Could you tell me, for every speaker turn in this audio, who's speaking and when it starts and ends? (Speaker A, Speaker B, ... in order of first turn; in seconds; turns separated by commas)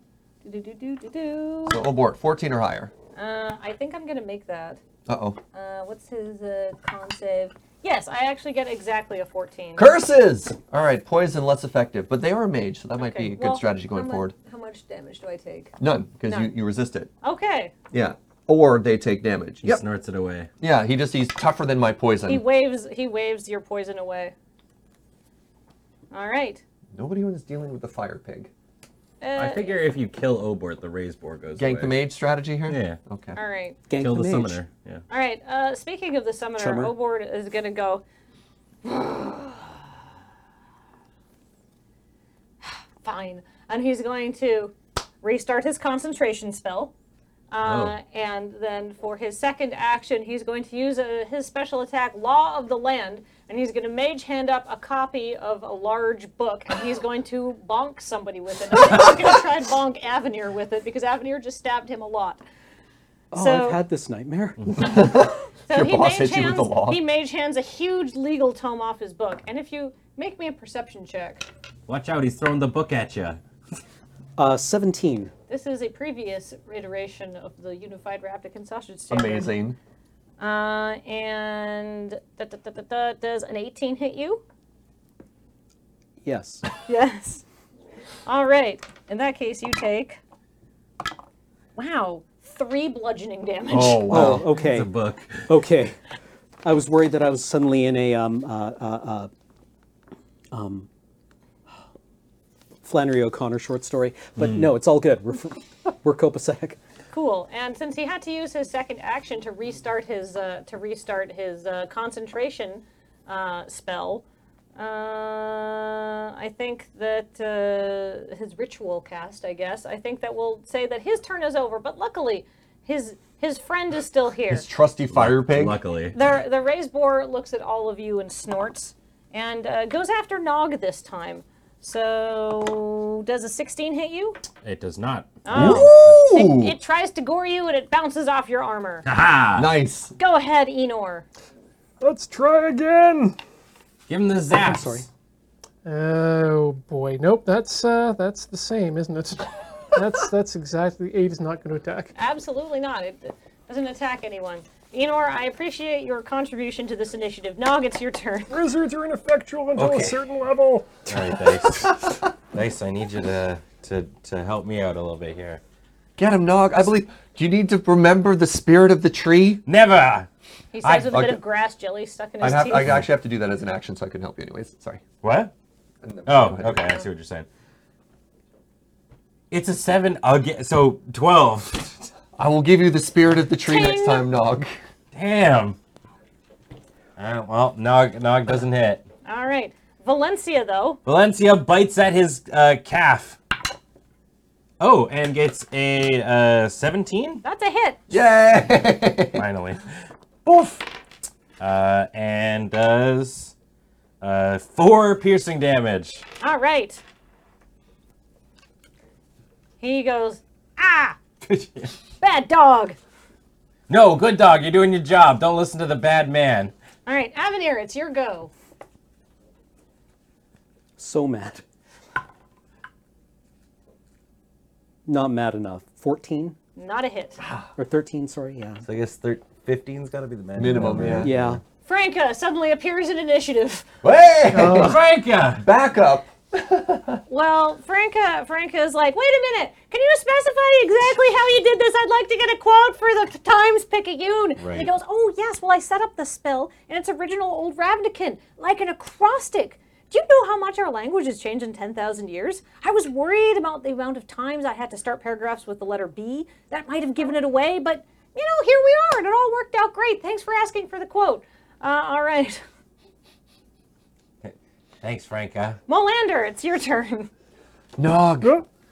Speaker A: 0.4-1.8, Speaker B: 1.7-2.9, Speaker A: 3.1-4.8, Speaker B: 5.1-5.4, Speaker A: 5.5-9.9, Speaker B: 9.8-14.3, Speaker A: 13.0-15.7, Speaker B: 15.8-17.1, Speaker A: 16.2-16.5, Speaker A: 17.2-17.7, Speaker B: 17.9-19.8, Speaker C: 19.6-20.5, Speaker B: 20.6-22.4, Speaker A: 22.2-24.3, Speaker A: 26.1-26.6, Speaker B: 26.9-28.5, Speaker A: 29.2-29.8, Speaker C: 29.3-32.0, Speaker B: 31.6-33.4, Speaker C: 32.7-33.0, Speaker A: 33.4-33.8, Speaker D: 33.9-34.6, Speaker C: 34.0-35.0, Speaker A: 35.1-38.0, Speaker D: 36.6-36.9, Speaker A: 38.8-39.7, Speaker A: 42.6-46.9, Speaker A: 47.5-62.4, Speaker C: 47.6-47.9, Speaker D: 63.3-64.9, Speaker A: 63.3-63.8, Speaker B: 64.8-67.0, Speaker A: 65.7-71.4, Speaker C: 71.9-73.4, Speaker D: 74.4-75.3, Speaker A: 75.5-79.5, Speaker B: 79.1-79.8, Speaker A: 80.4-84.4, Speaker D: 86.2-86.6, Speaker A: 86.8-87.4, Speaker A: 88.2-90.2, Speaker A: 91.8-94.1, Speaker B: 93.7-94.5, Speaker D: 94.1-94.9, Speaker C: 94.1-95.5, Speaker D: 95.5-96.0, Speaker D: 96.6-99.3, Speaker D: 100.5-100.9, Speaker D: 102.8-106.8, Speaker C: 104.4-104.7, Speaker A: 107.1-114.2, Speaker A: 114.8-124.7, Speaker B: 124.5-125.8, Speaker C: 125.1-126.2, Speaker A: 126.1-134.4, Speaker C: 134.6-136.0, Speaker A: 135.4-139.0, Speaker B: 135.5-136.7, Speaker C: 139.0-139.7, Speaker B: 139.5-140.1, Speaker A: 140.2-141.2, Speaker E: 142.0-143.3, Speaker C: 144.1-145.1, Speaker D: 144.5-145.1, Speaker E: 145.8-152.1, Speaker A: 152.1-158.6, Speaker E: 158.5-161.4, Speaker C: 159.8-160.2, Speaker C: 161.1-165.6, Speaker B: 166.2-169.6, Speaker C: 169.7-170.3, Speaker A: 170.7-172.9, Speaker C: 170.8-171.2, Speaker B: 171.1-171.4, Speaker B: 172.4-175.0, Speaker C: 175.2-175.5, Speaker B: 176.0-177.0, Speaker C: 176.3-177.4, Speaker C: 179.5-182.1, Speaker B: 182.4-184.7, Speaker A: 183.6-184.3, Speaker C: 185.1-185.8, Speaker C: 187.2-189.0, Speaker A: 189.2-191.0, Speaker C: 191.0-193.4, Speaker C: 194.8-197.4, Speaker A: 197.4-198.0, Speaker B: 198.1-199.4, Speaker C: 199.3-199.8, Speaker C: 200.4-200.8, Speaker C: 201.6-203.5, Speaker C: 204.2-206.2, Speaker A: 206.4-207.0, Speaker A: 209.8-211.2, Speaker C: 211.4-211.9, Speaker A: 212.2-213.0, Speaker C: 213.9-216.7, Speaker A: 217.1-218.5, Speaker D: 221.0-221.6, Speaker D: 225.1-226.6, Speaker A: 226.8-227.4, Speaker B: 227.4-227.7, Speaker D: 227.8-228.8, Speaker C: 228.8-231.6, Speaker B: 230.6-231.3, Speaker D: 231.1-231.6, Speaker A: 231.8-233.9, Speaker B: 234.0-237.2, Speaker C: 234.5-235.6, Speaker A: 237.3-262.6, Speaker C: 244.6-244.9, Speaker C: 264.4-265.8, Speaker A: 265.9-267.3, Speaker B: 268.0-268.5